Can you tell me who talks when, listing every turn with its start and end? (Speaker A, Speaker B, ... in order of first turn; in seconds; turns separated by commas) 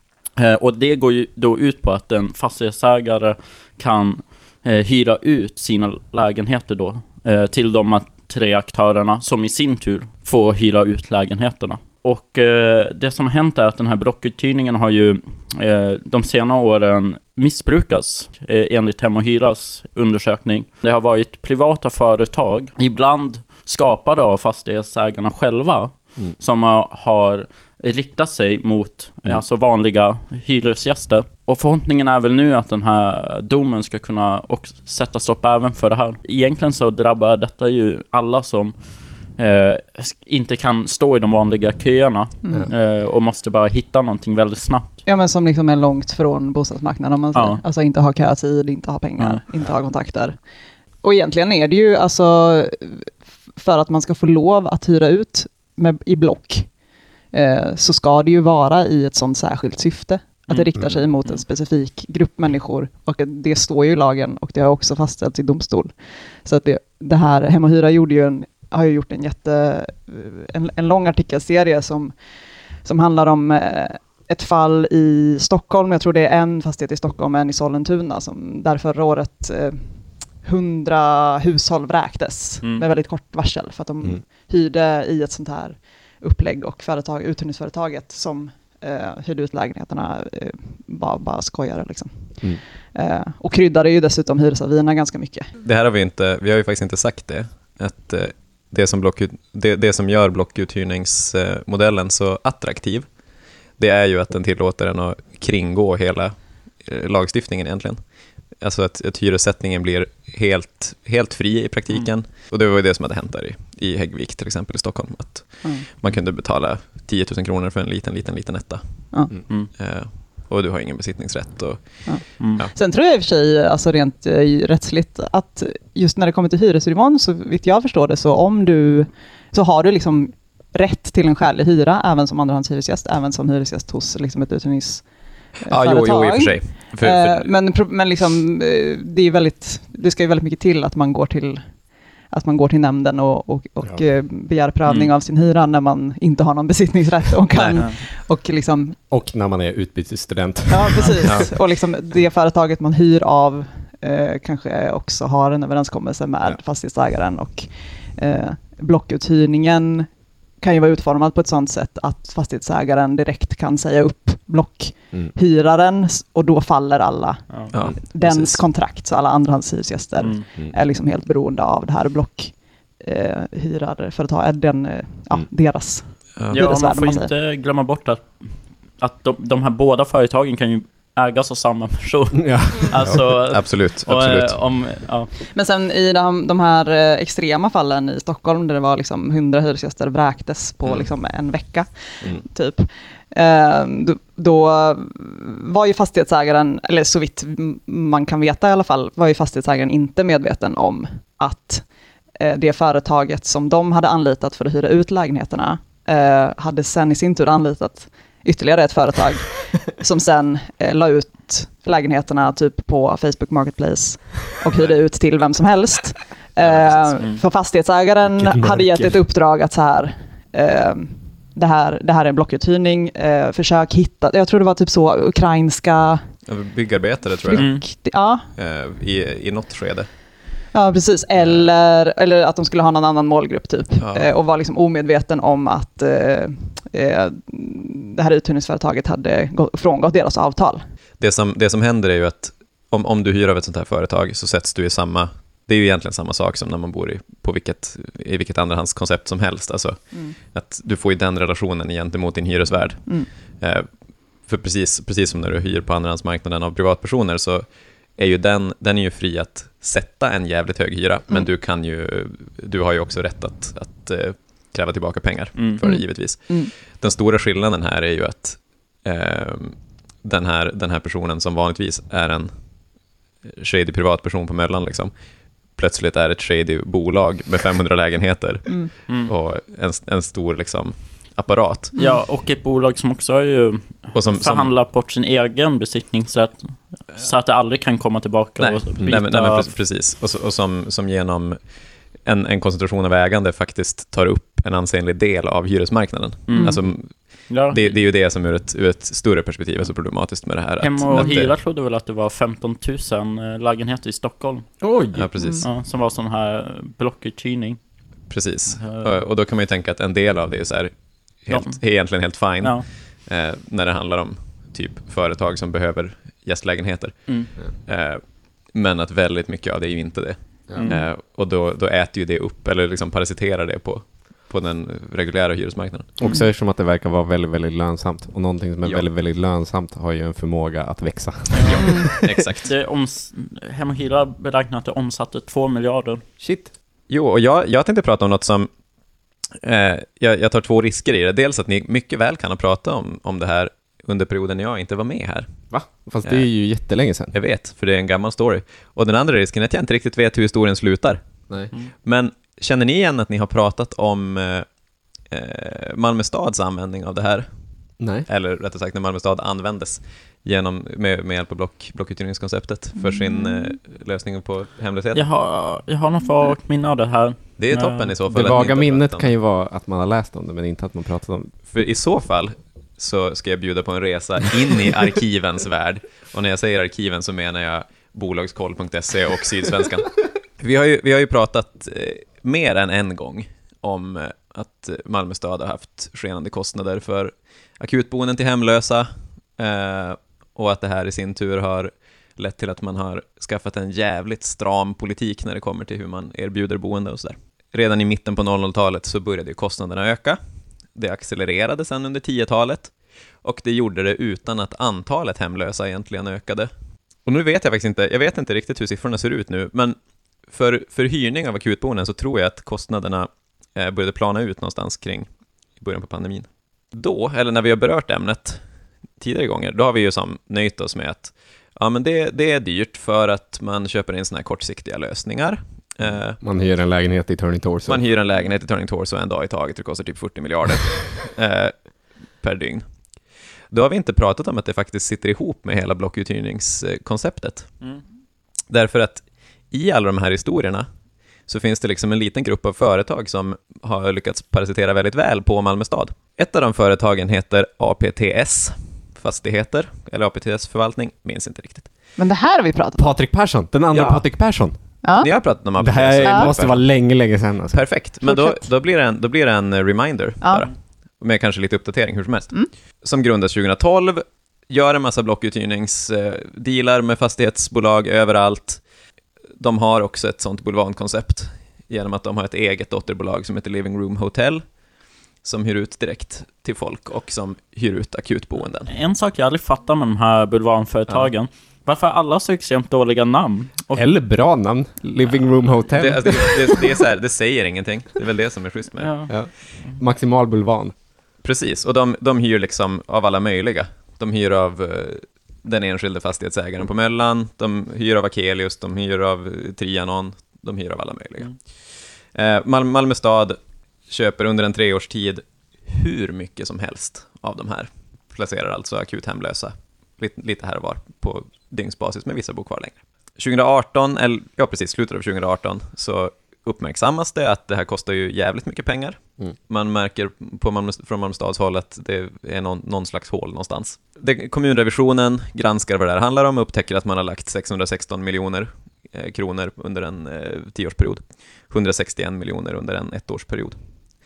Speaker A: 0.3-45.0, Speaker B: 45.0-50.4, Speaker A: 47.3-47.6, Speaker B: 51.0-56.8, Speaker B: 57.3-72.2, Speaker B: 72.8-95.5, Speaker C: 95.6-103.2, Speaker C: 103.7-122.7, Speaker B: 122.0-149.0, Speaker A: 122.4-122.6, Speaker C: 135.7-137.5, Speaker D: 149.1-151.5, Speaker B: 150.7-177.3, Speaker C: 151.2-151.5, Speaker C: 167.7-168.6, Speaker A: 170.2-170.4, Speaker C: 176.4-176.6, Speaker A: 176.5-185.3, Speaker D: 182.3-183.2, Speaker C: 183.1-184.6, Speaker B: 185.4-201.9, Speaker B: 202.4-226.2, Speaker C: 216.6-217.2, Speaker D: 218.4-219.2, Speaker C: 226.4-227.8, Speaker B: 227.4-228.4, Speaker A: 227.6-227.8, Speaker C: 228.6-230.1, Speaker B: 230.7-240.8, Speaker C: 231.4-231.7, Speaker C: 234.0-234.3, Speaker C: 241.2-272.9, Speaker B: 265.8-266.7, Speaker C: 273.4-275.1, Speaker C: 275.7-281.9, Speaker A: 282.0-289.7, Speaker C: 284.1-284.7, Speaker C: 288.6-301.5, Speaker A: 296.5-298.0, Speaker B: 296.5-296.8, Speaker A: 300.8-304.8, Speaker D: 304.8-305.3, Speaker C: 305.1-305.6, Speaker B: 305.4-305.7, Speaker A: 305.6-307.8, Speaker C: 308.3-326.1, Speaker A: 308.8-309.1, Speaker A: 311.5-312.9, Speaker A: 320.8-321.0, Speaker D: 326.2-332.4, Speaker A: 331.5-332.1, Speaker C: 331.6-332.7, Speaker B: 331.8-332.1, Speaker A: 332.6-336.2, Speaker D: 336.4-336.7, Speaker C: 337.1-338.7, Speaker C: 339.6-345.5, Speaker D: 345.7-347.3, Speaker C: 347.3-351.2, Speaker C: 351.8-354.7, Speaker C: 355.3-357.5, Speaker D: 358.0-358.3, Speaker C: 358.3-365.3, Speaker B: 363.0-363.7, Speaker A: 365.1-368.1, Speaker C: 367.6-369.3, Speaker D: 368.3-371.5, Speaker C: 371.7-400.4, Speaker C: 400.9-406.7, Speaker C: 407.2-409.9, Speaker C: 410.5-418.6, Speaker C: 419.2-426.4, Speaker D: 426.1-428.0, Speaker C: 427.9-432.9, Speaker C: 433.7-437.7, Speaker C: 438.7-440.9, Speaker C: 441.4-451.9, Speaker B: 452.2-453.1, Speaker D: 453.0-454.7, Speaker C: 453.9-454.2, Speaker B: 455.0-455.3, Speaker C: 455.2-456.9, Speaker D: 455.8-457.8, Speaker B: 456.2-456.5, Speaker C: 457.7-468.9, Speaker B: 458.2-458.6, Speaker B: 460.4-460.6, Speaker C: 469.6-474.8, Speaker C: 475.4-478.9, Speaker A: 478.9-484.1, Speaker D: 483.9-487.0, Speaker C: 485.9-489.1, Speaker A: 489.0-490.0, Speaker D: 489.3-490.9, Speaker C: 491.4-533.8